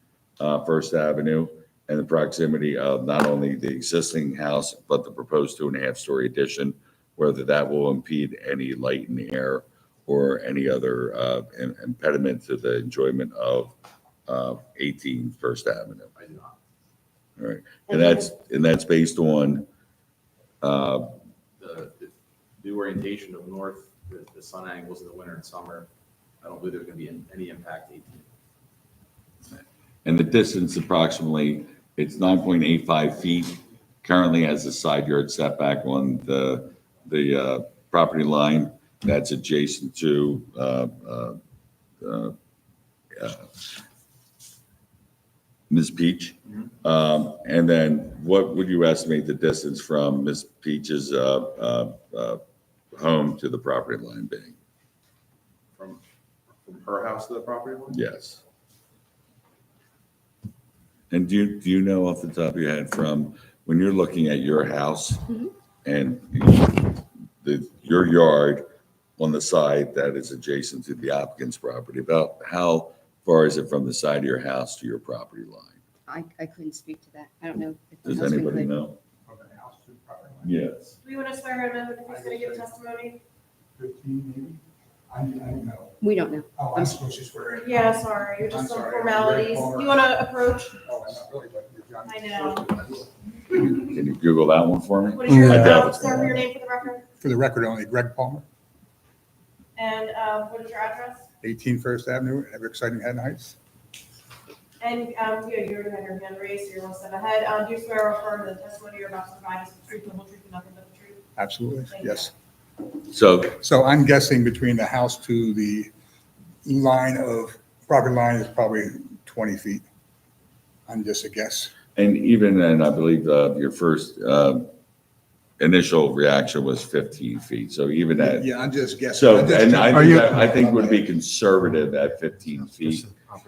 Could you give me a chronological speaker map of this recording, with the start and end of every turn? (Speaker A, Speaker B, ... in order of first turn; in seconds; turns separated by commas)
Speaker A: 0.4-13.8, Speaker A: 14.3-16.1, Speaker B: 16.1-16.6, Speaker A: 17.4-19.7, Speaker A: 20.6-21.1, Speaker B: 21.6-25.9, Speaker B: 26.4-28.3, Speaker A: 29.6-41.4, Speaker A: 42.0-42.3, Speaker A: 43.2-43.8, Speaker A: 45.7-52.4, Speaker A: 52.9-54.6, Speaker B: 56.6-58.0, Speaker A: 57.9-58.4, Speaker A: 61.1-65.3, Speaker A: 65.8-68.7, Speaker A: 69.2-75.8, Speaker C: 76.1-78.7, Speaker A: 78.1-79.0, Speaker D: 79.3-80.5, Speaker A: 80.4-80.9, Speaker E: 81.0-83.2, Speaker D: 82.1-82.7, Speaker D: 83.8-86.0, Speaker C: 86.0-87.0, Speaker D: 86.6-90.2, Speaker E: 87.6-90.8, Speaker D: 90.8-93.2, Speaker E: 92.0-92.7, Speaker A: 93.6-96.4, Speaker E: 95.1-97.1, Speaker D: 97.2-98.4, Speaker E: 99.8-101.2, Speaker D: 101.4-103.6, Speaker E: 104.8-111.2, Speaker D: 111.4-112.3, Speaker E: 111.9-112.3, Speaker A: 113.1-113.6, Speaker D: 113.6-115.9, Speaker D: 116.6-119.8, Speaker D: 120.9-121.7, Speaker A: 121.9-124.7, Speaker A: 125.6-128.5, Speaker D: 128.2-131.0, Speaker A: 129.1-133.1